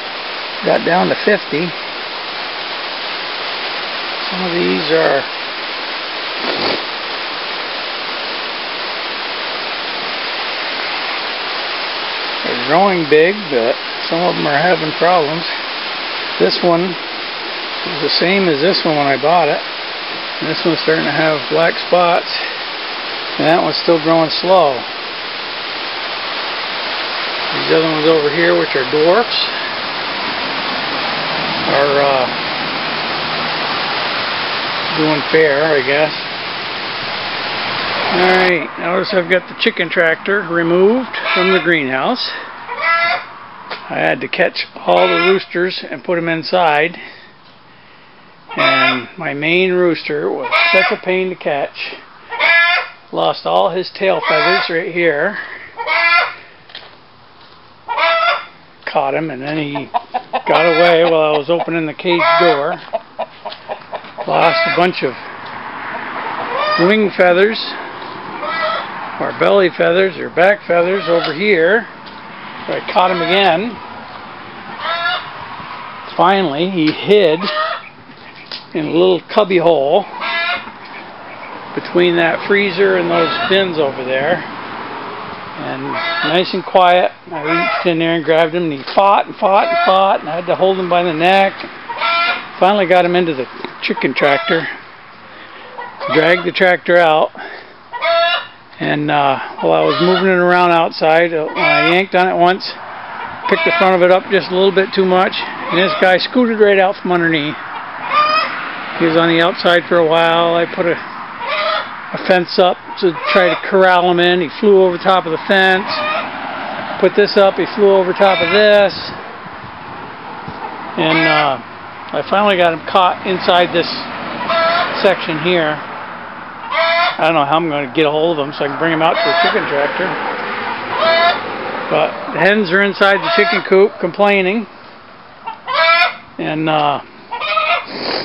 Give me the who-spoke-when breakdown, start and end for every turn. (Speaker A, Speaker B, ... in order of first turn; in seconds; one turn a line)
Speaker A: 0.6-1.7
Speaker A: 4.2-5.3
Speaker A: 12.4-15.5
Speaker A: 16.4-17.0
Speaker A: 17.8-19.6
Speaker A: 20.4-22.4
Speaker A: 23.4-24.9
Speaker A: 27.5-29.5
Speaker A: 31.6-32.3
Speaker A: 34.9-36.3
Speaker A: 38.1-42.3
Speaker A: 43.9-47.0
Speaker A: 48.5-52.0
Speaker A: 53.1-55.4
Speaker A: 58.8-59.9
Speaker A: 60.4-62.8
Speaker A: 64.2-65.2
Speaker A: 66.8-67.8
Speaker A: 69.2-71.9
Speaker A: 72.7-73.8
Speaker A: 76.0-77.5
Speaker A: 78.7-80.1
Speaker A: 81.7-84.5
Speaker A: 85.5-91.7
Speaker A: 92.5-94.7
Speaker A: 96.1-97.3
Speaker A: 98.8-102.8
Speaker A: 103.5-107.6
Speaker A: 109.0-111.0
Speaker A: 112.1-116.0
Speaker A: 117.0-119.2
Speaker A: 121.0-124.1
Speaker A: 124.9-125.8
Speaker A: 127.2-130.2
Speaker A: 131.9-134.7
Speaker A: 136.4-137.0